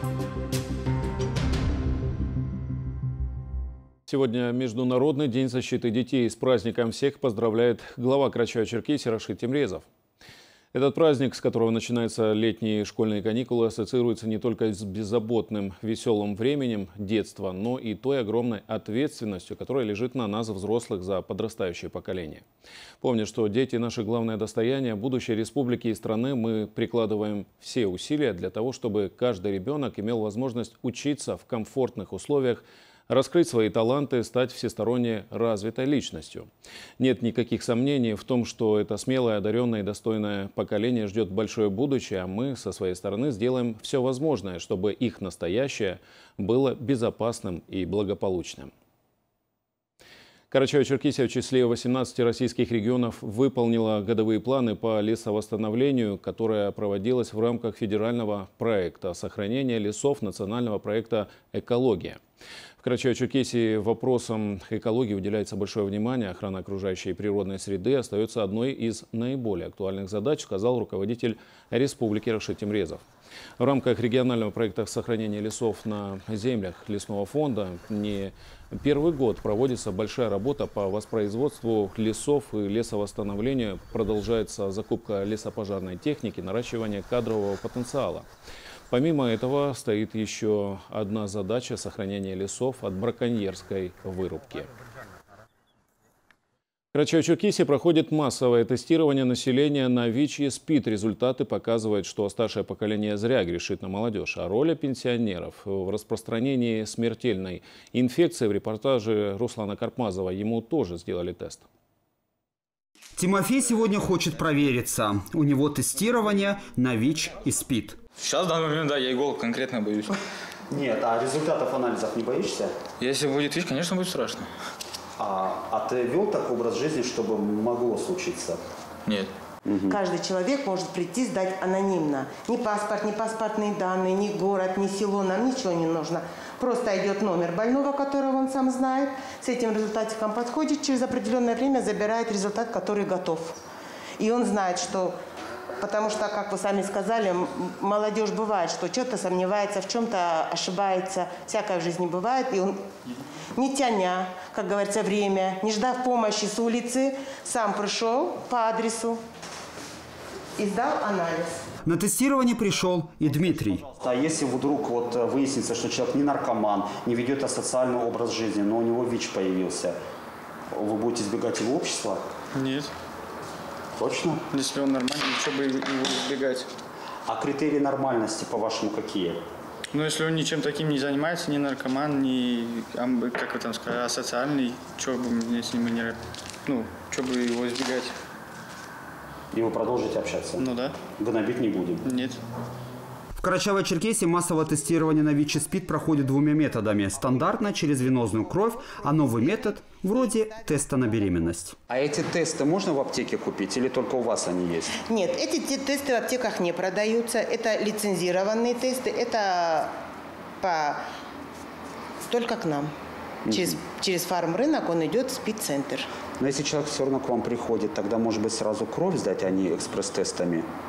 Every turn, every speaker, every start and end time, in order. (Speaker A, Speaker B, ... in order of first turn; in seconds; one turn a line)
Speaker A: 4.1-9.9
Speaker A: 10.7-22.4
Speaker A: 23.0-36.5
Speaker A: 37.0-48.7
Speaker A: 50.5-62.2
Speaker A: 62.8-73.0
Speaker A: 73.6-88.3
Speaker A: 88.9-94.7
Speaker A: 96.9-111.7
Speaker B: 113.2-118.0
Speaker C: 118.2-120.1
Speaker B: 120.7-122.7
Speaker C: 123.0-124.5
Speaker B: 125.2-128.6
Speaker B: 129.7-130.0
Speaker D: 129.9-143.6
Speaker D: 144.2-145.2
Speaker D: 145.8-152.8
Speaker D: 153.6-159.2
Speaker D: 160.6-161.6
Speaker B: 161.9-170.0
Speaker B: 170.7-172.3
Speaker B: 174.0-174.4
Speaker B: 177.3-179.4
Speaker C: 180.0-180.7
Speaker C: 181.7-181.9
Speaker C: 182.8-186.2
Speaker C: 186.8-188.1
Speaker B: 189.5-190.7
Speaker B: 191.2-192.0
Speaker B: 193.4-205.0
Speaker D: 205.1-209.9
Speaker D: 210.6-211.0
Speaker D: 212.2-212.9
Speaker B: 213.5-213.8
Speaker D: 213.5-216.1
Speaker B: 216.4-220.7